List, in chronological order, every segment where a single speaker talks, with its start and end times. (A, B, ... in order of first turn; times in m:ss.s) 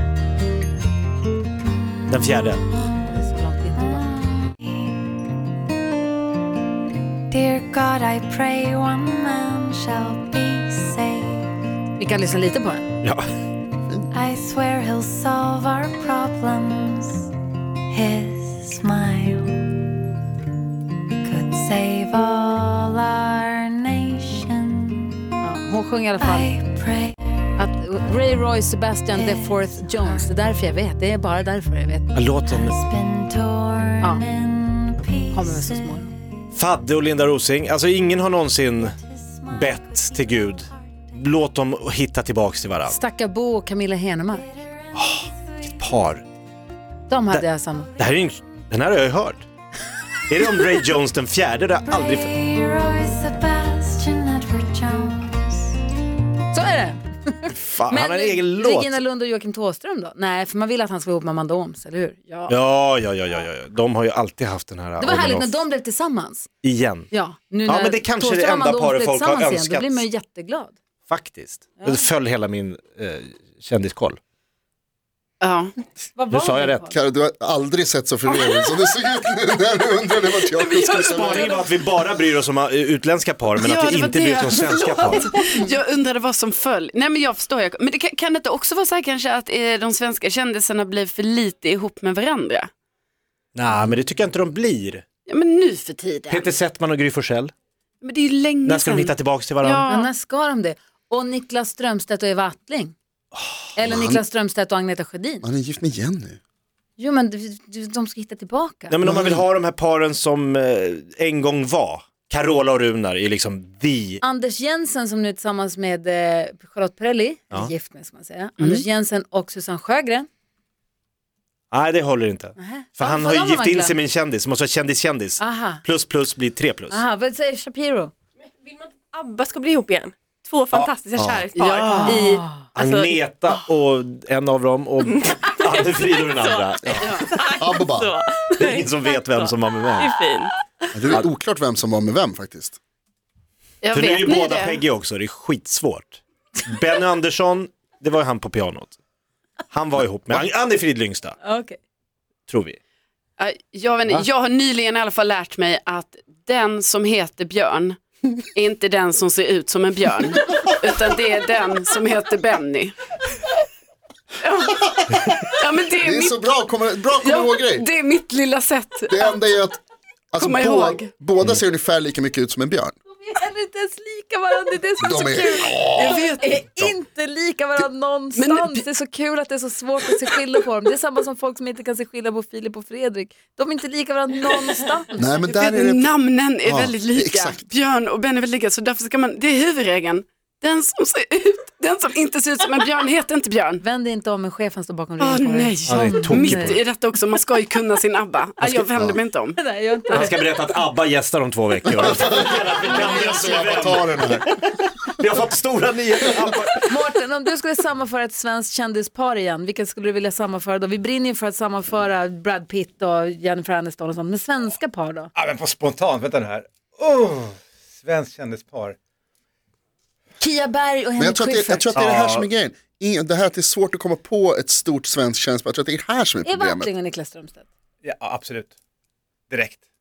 0:02.1-0:02.6 A
0:02.8-0:04.1 B
0:04.0-0:05.1 C
0:07.3-0:11.6 C
0:12.0-0:12.9 B
0:14.1-0:17.3 C
0:17.9-0:19.9 C
0:21.2-0:25.1 C
0:25.4-0:26.5 B
0:26.2-0:27.2 C
0:27.6-0:32.2 B
0:29.1-0:30.3 C
0:32.1-0:32.8 A
0:32.4-0:36.1 C
0:35.3-0:36.1 B
0:36.5-0:39.0 A
0:38.8-0:41.1 C
0:39.5-0:43.0 A
0:42.9-0:44.5 B
0:44.3-0:46.0 C
0:45.0-0:46.2 A
0:47.1-0:47.9 B
0:48.0-0:49.5 A
0:50.3-0:52.3 A
0:51.9-0:55.8 C
0:56.5-1:02.6 B
0:57.5-0:59.0 A
1:02.5-1:05.6 A
1:05.0-1:06.5 B
1:06.6-1:07.1 A
1:07.1-1:10.8 B
1:07.7-1:10.0 A
1:11.1-1:14.2 A
1:15.4-1:15.7 D
1:16.2-1:17.0 B
1:16.3-1:16.8 A
1:16.9-1:21.5 E
1:20.5-1:21.6 D
1:21.1-1:25.3 A
1:23.6-1:32.7 D
1:33.6-1:35.0 A
1:35.3-1:36.5 D
1:36.3-1:37.5 A
1:38.0-1:40.1 D
1:38.6-1:39.9 A
1:39.9-1:43.0 B
1:43.8-1:45.4 B
1:43.8-1:44.2 E
1:45.4-1:46.4 E
1:47.0-1:49.0 B
1:48.9-1:54.2 A
1:49.0-1:49.4 E
1:54.2-2:00.3 B
1:58.6-1:58.8 D
2:01.7-2:07.0 A
2:02.6-2:04.0 B
2:05.4-2:05.8 B
2:06.9-2:08.1 B
2:08.6-2:13.5 F
2:11.2-2:11.5 E
2:11.6-2:12.1 D
2:11.6-2:12.1 A
2:11.9-2:12.7 B
2:12.7-2:17.3 A
2:16.4-2:16.6 F
2:17.0-2:17.3 D
2:17.3-2:20.5 F
2:17.6-2:18.2 E
2:18.6-2:20.2 A
2:20.9-2:22.8 E
2:23.8-2:24.8 D
2:23.9-2:29.0 A
2:29.7-2:31.4 A
2:31.4-2:31.8 B
2:32.5-2:32.8 A
2:33.4-2:38.0 D
2:38.5-2:43.0 D
2:44.4-2:46.5 D
2:46.0-2:47.9 E
2:47.2-2:49.3 D
2:49.1-2:49.8 E
2:50.3-2:52.9 E
2:50.4-2:51.1 D
2:53.2-3:05.3 B
2:55.0-2:56.3 E
2:55.9-2:56.6 D
2:58.4-2:58.8 D
3:05.2-3:07.6 E
3:05.5-3:13.8 D
3:13.8-3:16.8 B
3:15.2-3:19.6 D
3:15.9-3:16.8 A
3:18.6-3:19.2 E
3:19.6-3:20.3 B
3:20.1-3:26.9 A
3:21.9-3:24.5 E
3:26.9-3:35.3 B
3:35.4-3:39.0 G
3:40.4-3:41.9 B
3:41.2-3:46.9 E
3:41.9-3:42.5 A
3:46.4-3:47.7 B
3:48.0-3:48.7 G
3:49.5-3:49.8 G